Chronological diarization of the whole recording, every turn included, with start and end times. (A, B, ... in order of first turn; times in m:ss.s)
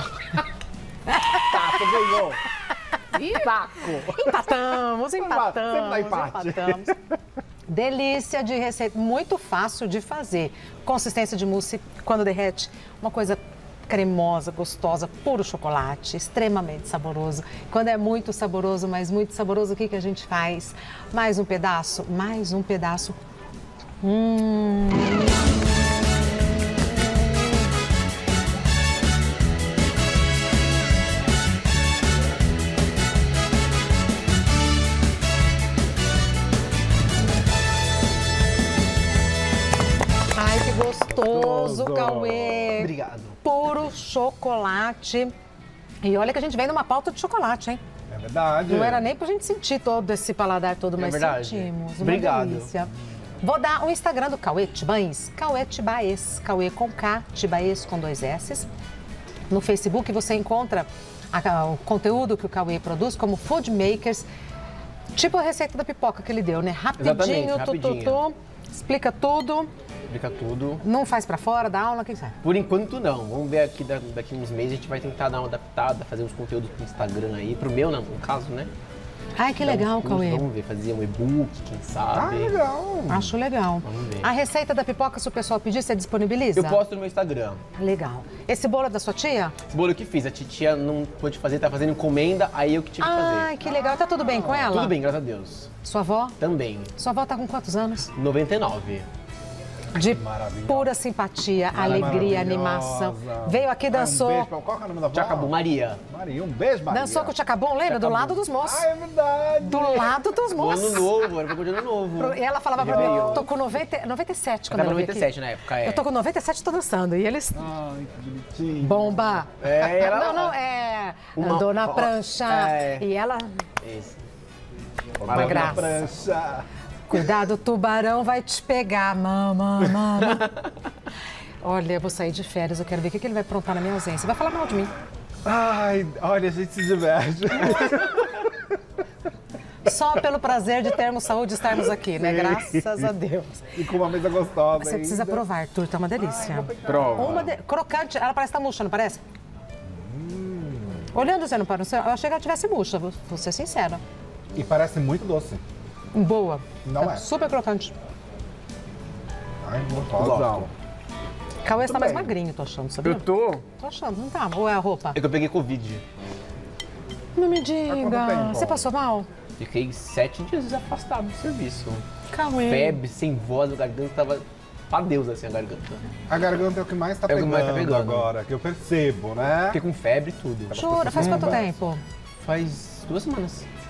0:01.1-0:02.1 A
0:01.4-0:02.4 B
0:03.1-0:07.0 A
0:03.2-0:04.1 C
0:05.2-0:07.0 B
0:07.7-0:23.2 A
0:24.0-0:25.4 A
0:40.4-0:42.9 A
0:41.1-0:42.8 B
0:42.7-0:43.4 C
0:43.4-0:45.3 A
0:46.0-0:47.8 A
0:48.1-0:49.1 B
0:48.7-0:58.7 A
0:51.0-0:52.7 C
0:59.5-1:04.3 A
1:05.1-1:09.7 A
1:07.0-1:08.2 C
1:10.1-1:10.8 C
1:10.8-1:12.4 A
1:12.4-1:18.7 C
1:19.4-1:20.5 A
1:19.6-1:22.6 C
1:22.1-1:23.4 B
1:23.1-1:26.8 A
1:23.8-1:24.3 C
1:26.6-1:27.6 C
1:27.7-1:29.6 A
1:29.7-1:33.5 C
1:33.0-1:35.0 A
1:34.1-1:34.8 B
1:34.7-1:35.7 C
1:35.8-1:36.4 A
1:36.4-1:36.9 C
1:37.0-1:38.1 A
1:38.2-1:39.1 C
1:39.9-1:44.5 A
1:40.0-1:40.9 B
1:41.7-1:42.6 C
1:41.7-1:45.6 B
1:45.1-1:46.0 C
1:46.1-1:47.3 B
1:46.9-1:48.9 A
1:47.9-1:48.4 C
1:48.6-1:50.2 B
1:49.6-1:51.2 A
1:50.5-1:53.5 C
1:52.2-1:57.7 A
1:52.8-1:53.5 B
1:54.7-1:56.0 C
1:57.6-1:59.4 B
1:58.8-2:03.6 A
1:59.6-2:00.6 C
2:01.4-2:03.1 C
2:03.8-2:04.2 C
2:05.2-2:06.7 B
2:05.2-2:06.0 C
2:05.3-2:06.1 A
2:07.1-2:10.5 A
2:10.1-2:10.5 C
2:11.6-2:14.9 A
2:15.4-2:18.6 B
2:19.8-2:23.8 A
2:21.7-2:23.1 B
2:23.8-2:25.4 B
2:24.8-2:29.2 A
2:26.2-2:27.5 B
2:26.8-2:27.5 C
2:29.9-2:31.1 B
2:31.1-2:34.0 A
2:34.5-2:35.6 B
2:36.1-2:37.9 A
2:36.8-2:37.2 B
2:39.6-2:40.7 B
2:40.1-2:40.7 C
2:41.6-2:45.2 A
2:41.8-2:42.3 B
2:43.0-2:43.6 C
2:45.1-2:46.0 C
2:47.4-2:49.3 A
2:47.9-2:48.9 B
2:49.6-2:52.0 C
2:52.3-2:53.0 A
2:52.6-2:56.0 C
2:56.3-2:59.8 B
2:57.3-2:58.3 C
2:59.7-3:01.6 C
3:00.7-3:01.7 B
3:00.7-3:02.0 A
3:02.4-3:03.7 C